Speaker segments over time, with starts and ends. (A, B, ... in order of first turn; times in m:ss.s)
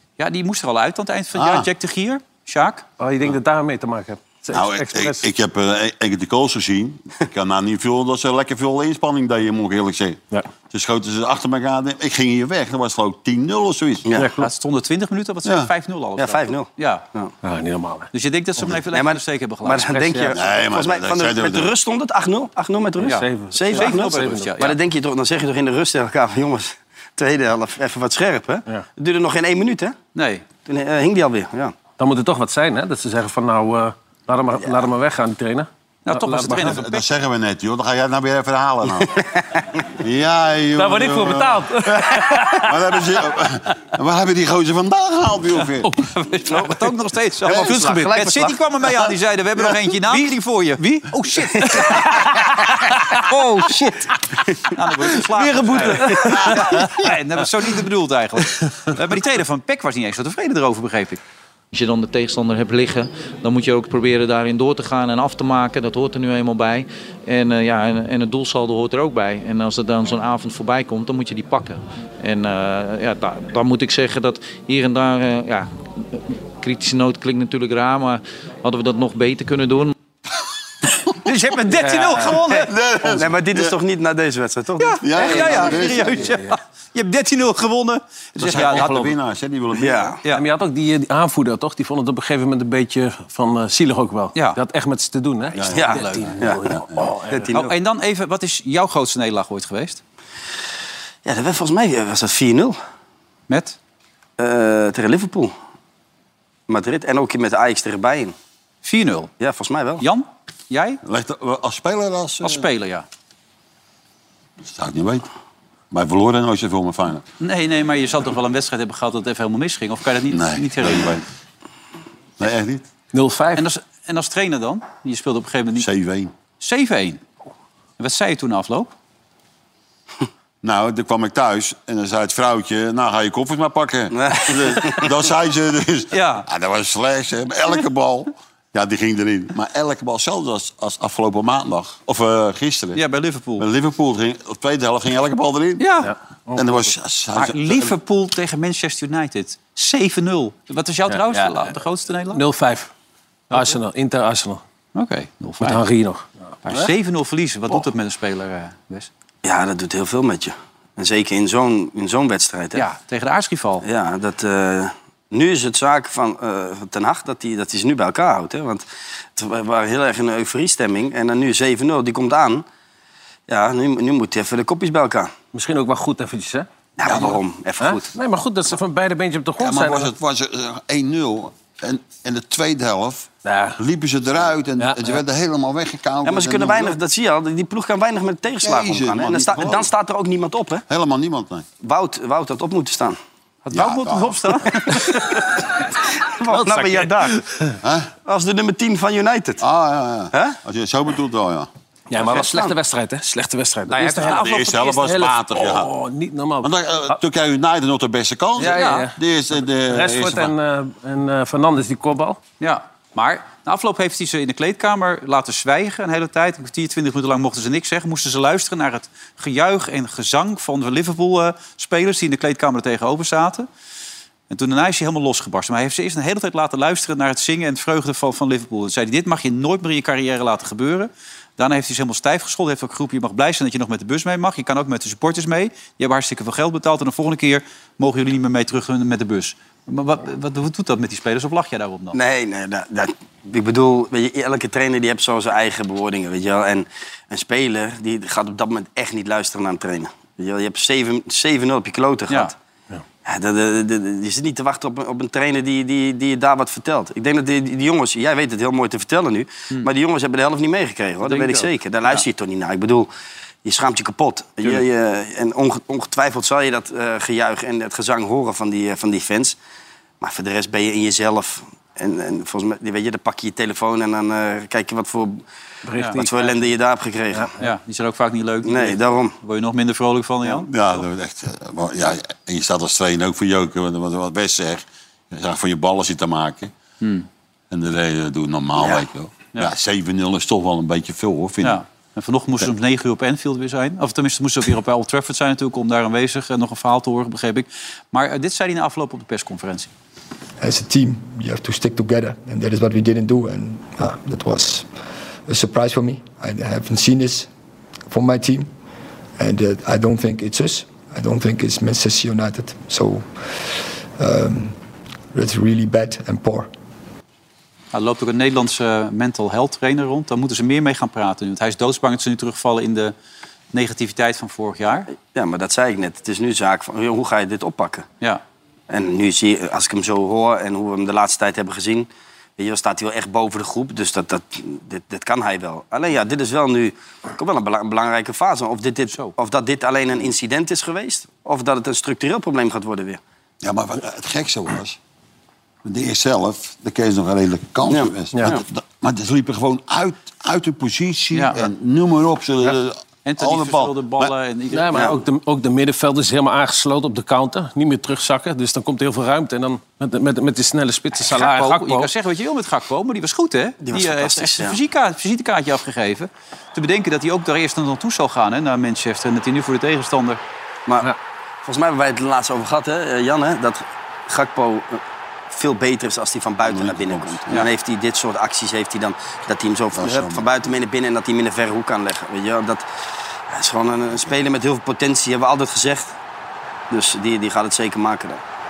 0:00.2-0:02.8 A
0:01.3-0:01.7 B
0:03.0-0:05.3 C
0:04.5-0:14.1 B
0:14.2-0:14.5 C
0:14.4-0:17.0 A
0:15.4-0:15.7 B
0:16.2-0:17.3 D
0:17.4-0:18.1 C
0:18.1-0:20.0 A
0:18.9-0:30.0 D
0:19.9-0:20.4 C
0:20.3-0:21.7 B
0:23.0-0:24.5 C
0:23.0-0:24.8 A
0:30.1-0:30.4 A
0:30.6-0:31.7 D
0:32.0-0:36.8 C
0:36.0-0:37.0 A
0:36.6-0:39.2 B
0:39.9-0:45.9 B
0:40.8-0:42.7 C
0:46.2-0:52.3 A
0:46.5-0:46.8 D
0:47.4-0:48.9 D
0:47.6-0:48.1 C
0:51.9-0:54.0 C
0:54.7-1:01.2 A
0:55.4-0:57.1 C
1:01.7-1:19.9 E
1:21.3-1:22.6 C
1:21.4-1:22.7 A
1:22.6-1:23.7 B
1:23.0-1:25.6 D
1:24.8-1:29.1 A
1:25.0-1:26.4 B
1:28.4-1:30.2 B
1:28.6-1:29.0 C
1:29.7-1:30.2 D
1:30.3-1:37.4 C
1:35.6-1:35.8 B
1:35.7-1:36.3 A
1:35.7-1:37.7 D
1:37.5-1:40.0 A
1:41.2-1:42.8 D
1:43.5-1:43.8 A
1:44.4-1:45.5 D
1:46.7-1:48.3 D
1:48.8-1:49.3 A
1:49.4-1:50.0 D
1:50.0-1:51.0 A
1:51.0-1:52.6 B
1:52.4-1:53.0 A
1:54.6-1:55.3 B
1:55.9-1:57.2 B
1:57.4-2:01.2 A
2:00.3-2:01.2 B
2:02.4-2:02.8 B
2:03.1-2:03.6 C
2:03.6-2:05.9 A
2:05.8-2:06.3 B
2:06.6-2:07.2 A
2:08.0-2:08.9 A
2:10.6-2:23.0 B
2:14.1-2:15.1 D
2:16.1-2:16.5 A
2:22.9-2:23.7 A
2:23.6-2:25.9 B
2:25.8-2:26.1 A
2:26.0-2:26.8 C
2:26.5-2:27.9 B
2:27.3-2:32.4 A
2:31.1-2:31.7 C
2:32.3-2:32.9 C
2:33.5-2:34.6 C
2:33.5-2:33.8 A
2:34.9-2:35.8 A
2:35.6-2:36.9 C
2:36.6-2:39.1 A
2:39.4-2:42.8 D
2:42.7-2:43.8 A
2:43.8-2:48.8 D
2:49.4-2:52.6 D
2:53.5-2:55.3 D
2:55.5-2:56.7 C
2:57.0-2:58.1 D
2:57.1-2:57.3 B
2:57.8-3:00.1 C
2:59.6-3:07.0 B
3:03.4-3:03.8 C
3:04.8-3:05.2 C
3:06.2-3:10.8 D
3:08.6-3:09.9 B
3:10.9-3:11.6 B
3:11.8-3:13.2 D
3:13.6-3:15.1 A
3:13.7-3:14.7 B
3:14.9-3:15.2 D
3:16.3-3:17.4 D
3:16.5-3:17.7 C
3:17.8-3:18.1 B
3:18.2-3:19.6 D
3:19.6-3:21.7 B
3:22.1-3:27.2 C
3:22.2-3:22.7 D
3:23.9-3:25.0 A
3:24.2-3:25.9 B
3:26.6-3:30.5 B
3:28.6-3:29.2 C
3:28.6-3:29.1 A
3:29.9-3:32.4 C
3:32.6-3:43.7 A
3:44.5-4:02.2 A
4:02.1-4:12.5 D
4:12.3-4:12.5 A
4:13.2-4:23.1 D
4:21.3-4:22.2 A
4:23.6-4:29.6 D
4:30.2-4:35.4 D
4:35.8-4:36.7 C
4:36.2-4:37.5 D
4:37.3-4:37.6 C
4:37.6-4:40.7 A
4:38.6-4:39.3 D
4:40.6-4:46.7 B
4:47.0-4:47.3 A
4:47.7-4:51.8 B
4:51.6-4:59.9 A
5:00.6-5:04.9 F
5:05.5-5:07.5 F
5:08.1-5:08.7 F
5:09.4-5:14.8 F
5:15.3-5:16.7 F
5:17.9-5:23.1 A
5:23.7-5:25.1 A
5:25.3-5:28.0 D
5:28.9-5:43.2 D
5:43.6-5:45.0 B
5:45.8-5:54.3 B
5:47.9-5:48.6 D
5:51.3-5:51.7 A
5:53.2-5:55.1 A
5:54.7-6:02.1 C
6:01.2-6:10.4 A
6:03.8-6:04.8 D
6:11.6-6:22.8 D
6:16.6-6:17.6 B
6:19.9-6:20.5 B
6:23.5-6:26.1 D
6:26.9-6:28.4 D